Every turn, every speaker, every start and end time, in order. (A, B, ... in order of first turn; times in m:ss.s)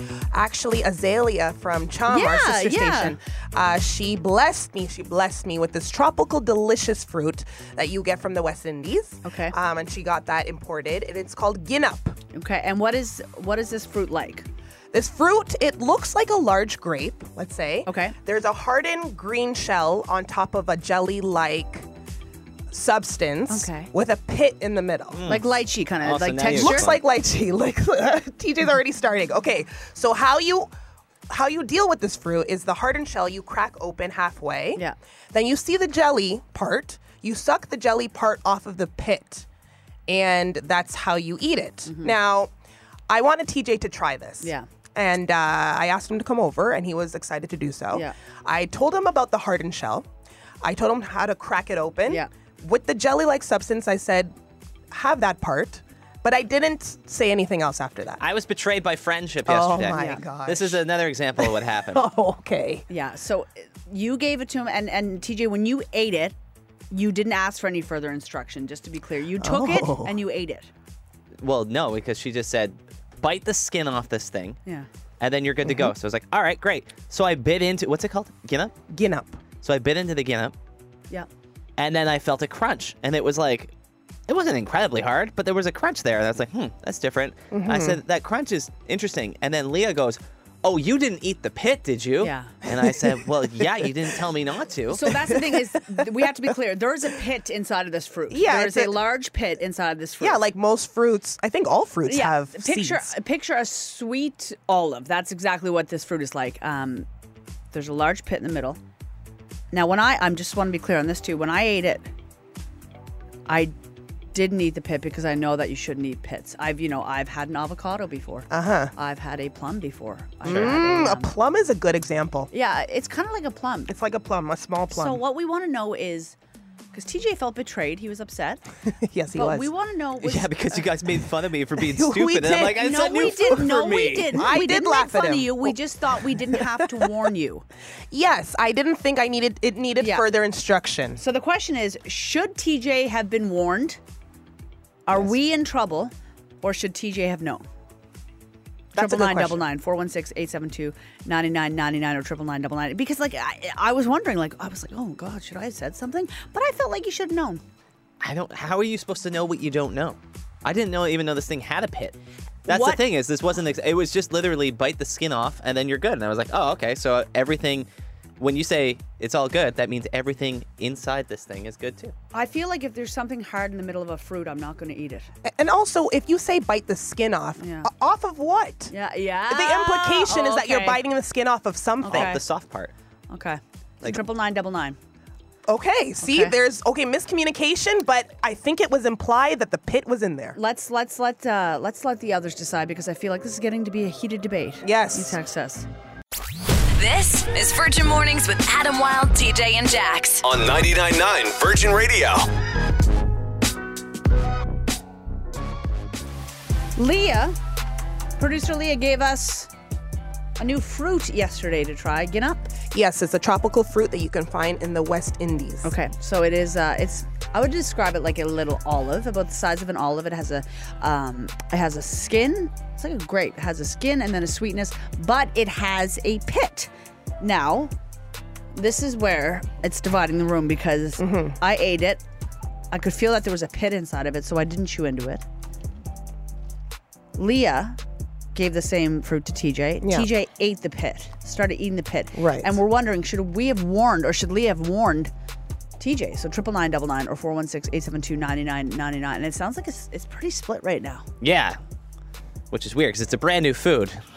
0:00.3-0:12.2 A
0:02.1-0:03.2 B
0:09.2-0:09.6 B
0:12.3-0:14.4 B
0:14.9-0:21.9 A
0:17.9-0:18.2 B
0:22.7-0:25.2 A
0:23.5-0:23.9 B
0:25.1-0:27.0 C
0:25.3-0:26.9 B
0:26.5-0:30.7 A
0:31.3-0:34.8 A
0:35.3-0:39.5 A
0:40.1-0:42.5 A
0:41.8-0:42.2 B
0:43.1-0:50.1 A
0:44.4-0:44.7 B
0:50.6-0:54.3 A
0:54.9-0:58.2 A
0:58.2-1:02.0 C
0:59.5-1:00.8 A
0:59.9-1:00.2 B
1:01.4-1:02.8 A
1:02.9-1:06.4 B
1:06.9-1:10.7 B
1:09.4-1:10.2 A
1:11.4-1:14.6 C
1:15.2-1:18.8 C
1:15.6-1:15.9 A
1:18.9-1:19.4 A
1:19.6-1:20.6 C
1:21.8-1:23.7 C
1:24.3-1:35.2 C
1:27.5-1:28.0 A
1:32.2-1:32.6 B
1:32.7-1:33.2 A
1:34.9-1:40.4 B
1:35.2-1:35.8 A
1:38.3-1:39.0 A
1:40.2-1:43.1 A
1:42.1-1:47.1 B
1:47.7-1:48.8 B
1:49.7-1:52.1 B
1:53.5-1:53.7 B
1:54.3-2:01.3 B
1:58.5-1:58.9 A
2:00.4-2:02.5 A
2:00.5-2:00.8 C
2:02.5-2:03.9 B
2:03.9-2:05.2 A
2:04.9-2:06.4 B
2:06.9-2:08.6 B
2:09.0-2:09.7 A
2:09.4-2:10.8 B
2:10.2-2:14.4 C
2:11.8-2:13.5 A
2:12.7-2:17.6 B
2:14.3-2:15.8 A
2:16.3-2:17.1 A
2:18.1-2:21.2 A
2:20.0-2:20.2 B
2:21.2-2:24.0 B
2:25.1-2:27.6 B
2:29.0-2:29.6 A
2:29.0-2:37.6 B
2:38.2-2:47.9 C
2:42.7-2:43.0 B
2:48.4-2:52.1 C
2:52.3-2:55.3 B
2:55.5-2:58.9 A
2:57.6-2:57.9 B
2:58.9-3:01.0 B
2:59.5-3:02.4 A
3:02.0-3:02.4 B
3:02.1-3:02.9 C
3:03.3-3:05.0 B
3:05.7-3:10.6 A
3:06.2-3:06.6 B
3:10.6-3:15.9 B
3:14.8-3:15.4 A
3:17.0-3:20.4 D
3:20.4-3:22.5 E
3:27.0-3:27.6 B
3:28.4-3:29.7 B
3:30.6-3:32.7 B
3:32.9-3:35.9 A
3:35.8-3:47.9 B
3:48.8-3:52.2 B
3:51.2-3:51.6 A
3:52.9-3:55.4 B
3:57.4-3:58.0 B
3:58.6-4:05.3 B
4:00.0-4:00.3 A
4:02.4-4:02.8 A
4:06.0-4:11.2 B
4:11.4-4:11.8 C
4:12.7-4:14.2 C